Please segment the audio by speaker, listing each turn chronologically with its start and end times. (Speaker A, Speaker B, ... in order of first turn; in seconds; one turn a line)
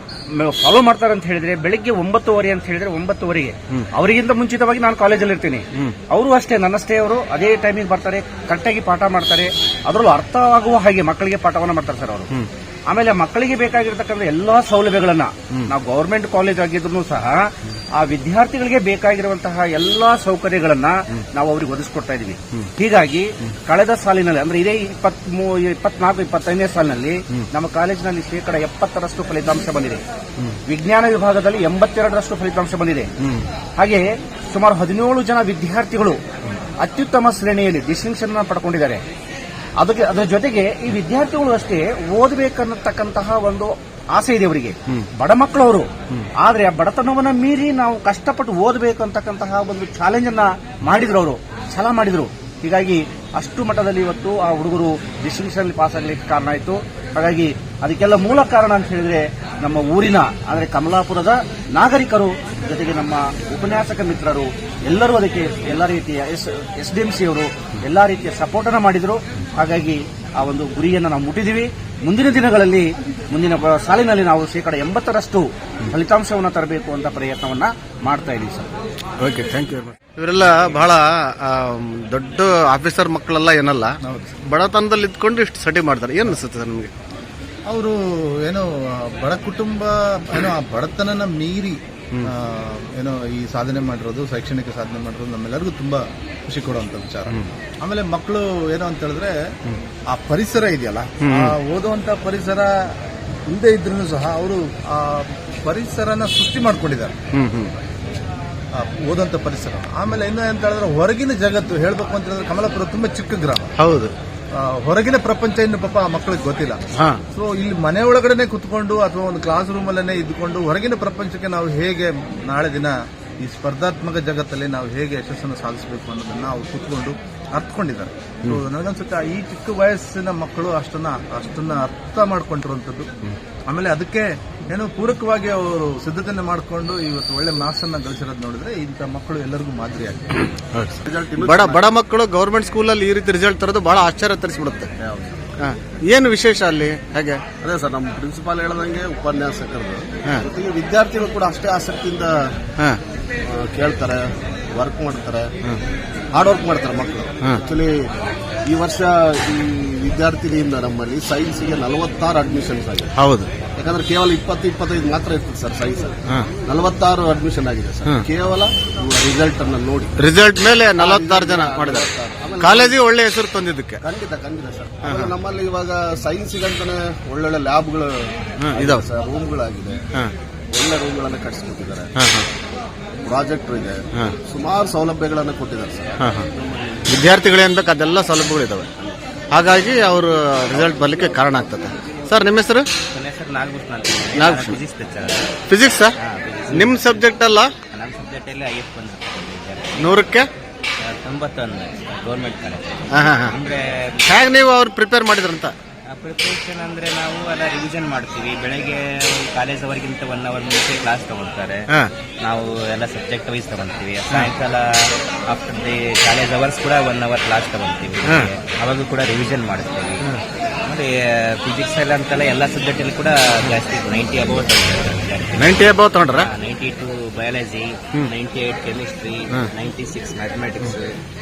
Speaker A: 0.3-12.3
Speaker A: 12.9-30.0
Speaker A: 30.6-33.1
Speaker B: 33.2-33.5
Speaker A: 33.8-36.2
Speaker A: 36.8-39.0
Speaker A: 39.8-78.7
Speaker B: 79.2-86.9
Speaker C: 84.0-84.3
Speaker C: 87.7-87.9
Speaker C: 88.5-99.3
Speaker C: 100.1-102.7
Speaker B: 101.2-101.5
Speaker C: 103.5-107.1
Speaker B: 107.3-107.7
Speaker C: 108.7-113.7
Speaker B: 113.8-114.1
Speaker C: 114.5-116.8
Speaker B: 117.0-117.2
Speaker C: 117.3-133.1
Speaker C: 133.7-140.4
Speaker B: 140.7-144.9
Speaker D: 141.0-141.8
Speaker D: 145.0-145.5
Speaker B: 145.6-147.4
Speaker D: 147.6-152.5
Speaker D: 153.4-155.5
Speaker D: 156.3-157.9
Speaker D: 158.6-163.1
Speaker B: 163.2-163.5
Speaker D: 163.8-170.2
Speaker B: 170.2-174.0
Speaker D: 170.9-172.9
Speaker D: 174.0-178.1
Speaker B: 175.0-175.3
Speaker B: 178.6-179.1
Speaker D: 178.7-180.0
Speaker D: 180.7-182.1
Speaker B: 182.2-182.4
Speaker D: 183.2-187.0
Speaker B: 186.2-186.5
Speaker B: 187.1-188.9
Speaker B: 189.5-192.9
Speaker E: 193.1-195.5
Speaker B: 194.3-194.8
Speaker B: 195.7-196.2
Speaker E: 196.2-197.2
Speaker B: 196.7-197.7
Speaker E: 197.9-199.9
Speaker B: 200.0-200.5
Speaker E: 201.1-204.2
Speaker B: 203.1-203.5
Speaker B: 204.2-205.7
Speaker E: 206.1-211.8
Speaker E: 212.4-214.8
Speaker E: 215.5-220.2
Speaker B: 218.2-218.5
Speaker E: 220.8-225.8
Speaker B: 225.6-226.5
Speaker E: 226.4-231.1